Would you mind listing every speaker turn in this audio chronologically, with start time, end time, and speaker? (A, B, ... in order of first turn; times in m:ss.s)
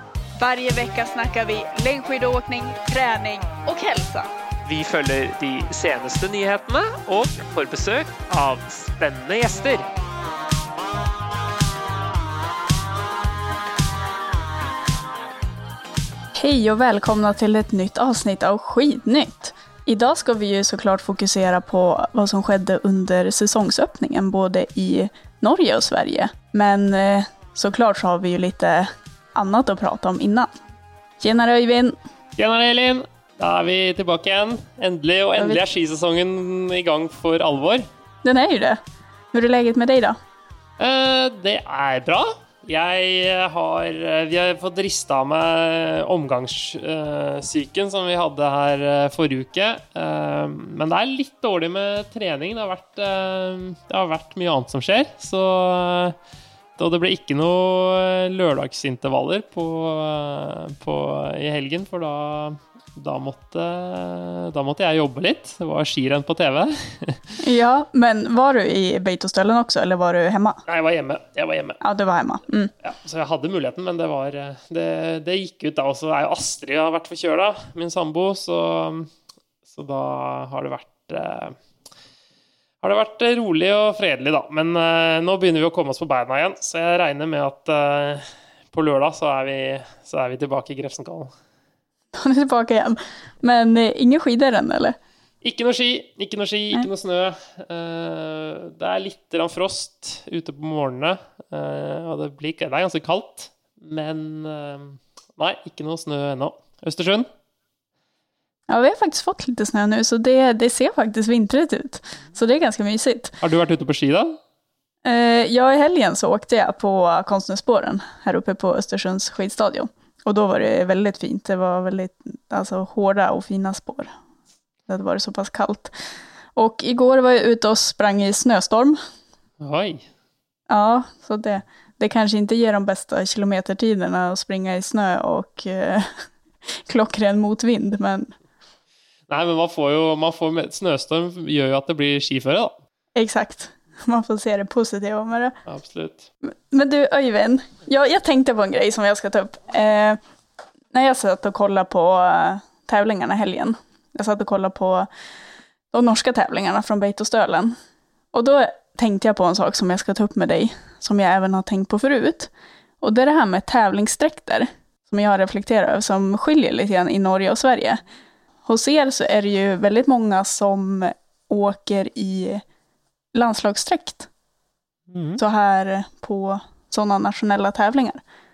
0:00.4-0:04.3 A
0:04.7-0:09.8 B
0:05.1-0:06.8 C
0:07.8-0:08.2 C
0:16.4-0:30.5 A
0:31.2-0:32.0 A
0:32.4-0:37.8 C
0:35.4-0:35.6 A
0:38.2-0:38.8 A
0:39.3-0:40.2 A
0:40.8-0:56.2 C
0:56.8-1:07.4 C
1:07.4-1:10.6 A
1:10.7-1:11.8 C
1:11.8-1:12.7 A
1:12.8-1:19.1 C
1:19.7-1:21.6 C
1:22.8-1:31.3 C
1:32.1-1:35.0 A
1:35.4-1:47.3 C
1:48.7-1:53.4 A
1:53.4-1:54.4 C
1:55.0-2:04.1 A
2:04.9-2:05.9 A
2:06.6-2:09.0 A
2:09.6-2:10.1 C
2:10.7-2:16.1 A
2:16.7-2:18.3 A
2:19.3-2:22.8 C
2:23.2-2:25.6 A
2:25.7-2:26.3 C
2:26.4-2:30.2 A
2:30.9-2:35.1 A
2:35.9-2:37.8 A
2:38.3-2:48.0 A
2:48.6-2:52.6 A
2:53.3-2:54.3 A
2:55.1-2:55.4 C
2:55.4-2:58.2 A